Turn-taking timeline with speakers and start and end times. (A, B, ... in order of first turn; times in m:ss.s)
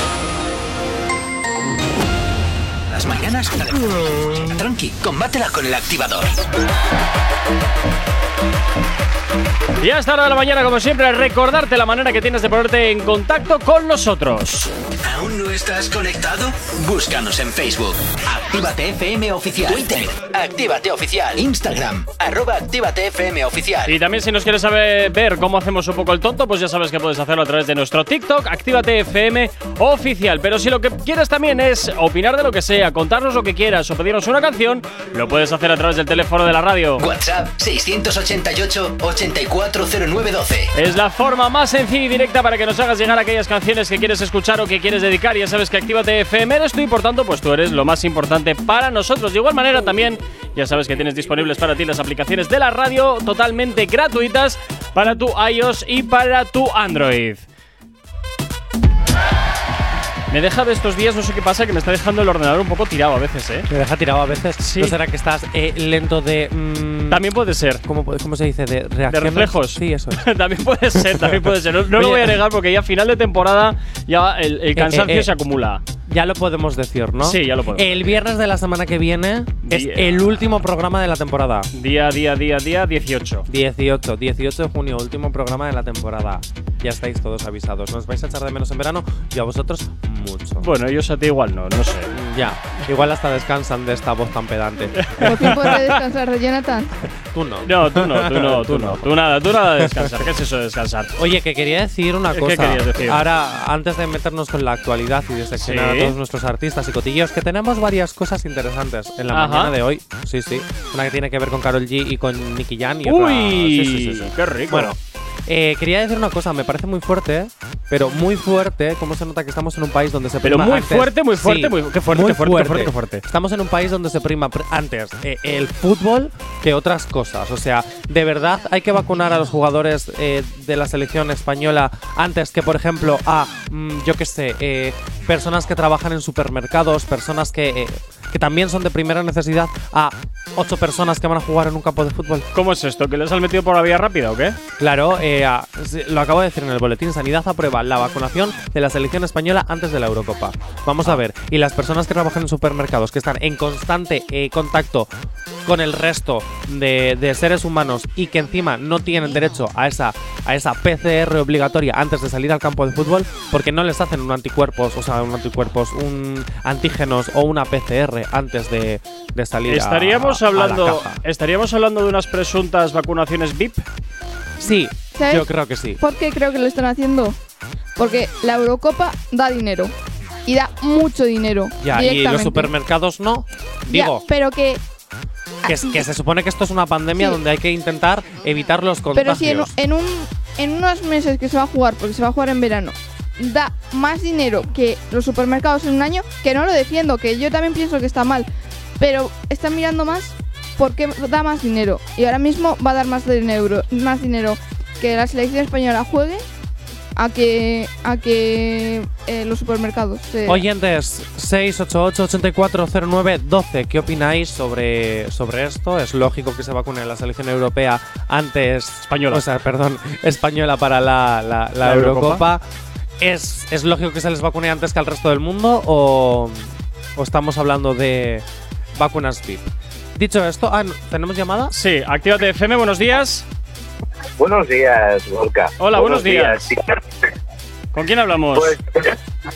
0:02.9-0:06.3 A
0:09.8-0:14.7 B
0:15.0-0:24.0 A
0:23.9-0:37.1 B
0:37.0-0:40.7 A
0:40.8-0:57.4 B
1:00.3-1:03.7 B
1:03.7-1:07.2 C
1:04.6-1:05.0 B
1:07.1-1:07.8 B
1:07.9-1:10.2 C
1:09.1-1:15.8 B
1:11.0-1:11.4 C
1:11.9-1:12.4 C
1:14.8-1:15.3 C
1:16.1-1:21.7 C
1:17.2-1:18.2 B
1:19.7-1:20.4 B
1:21.8-1:23.4 B
1:23.5-1:30.7 C
1:30.6-1:32.1 B
1:32.1-1:35.8 C
1:35.0-1:35.8 B
1:35.3-1:36.9 D
1:37.3-1:39.1 C
1:37.7-1:41.1 B
1:39.8-1:40.2 C
1:41.2-1:55.0 C
1:42.3-1:43.2 B
1:45.6-1:46.1 B
1:49.3-1:49.7 B
1:53.0-1:54.9 B
1:55.5-2:22.5 C
2:00.4-2:03.2 B
2:22.5-2:24.6 B
2:24.8-2:35.1 C
2:35.6-2:51.2 C
2:49.7-2:53.8 B
2:54.6-2:56.0 C
2:55.2-2:55.5 D
2:56.0-2:57.4 D
2:58.0-2:59.9 D
3:00.5-3:02.7 D
3:01.8-3:04.2 C
3:03.9-3:04.8 D
3:05.7-3:06.0 D
3:05.7-3:09.7 C
3:09.2-3:18.5 D
3:19.0-3:26.4 D
3:27.2-3:30.6 D
3:30.5-3:42.6 C
3:39.1-3:39.4 B
3:41.8-3:42.4 B
3:43.2-3:48.4 C
3:49.0-3:51.7 C
3:51.7-3:53.4 B
3:54.4-3:56.8 E
3:55.8-3:56.7 B
3:57.9-3:58.8 B
3:58.5-3:59.1 E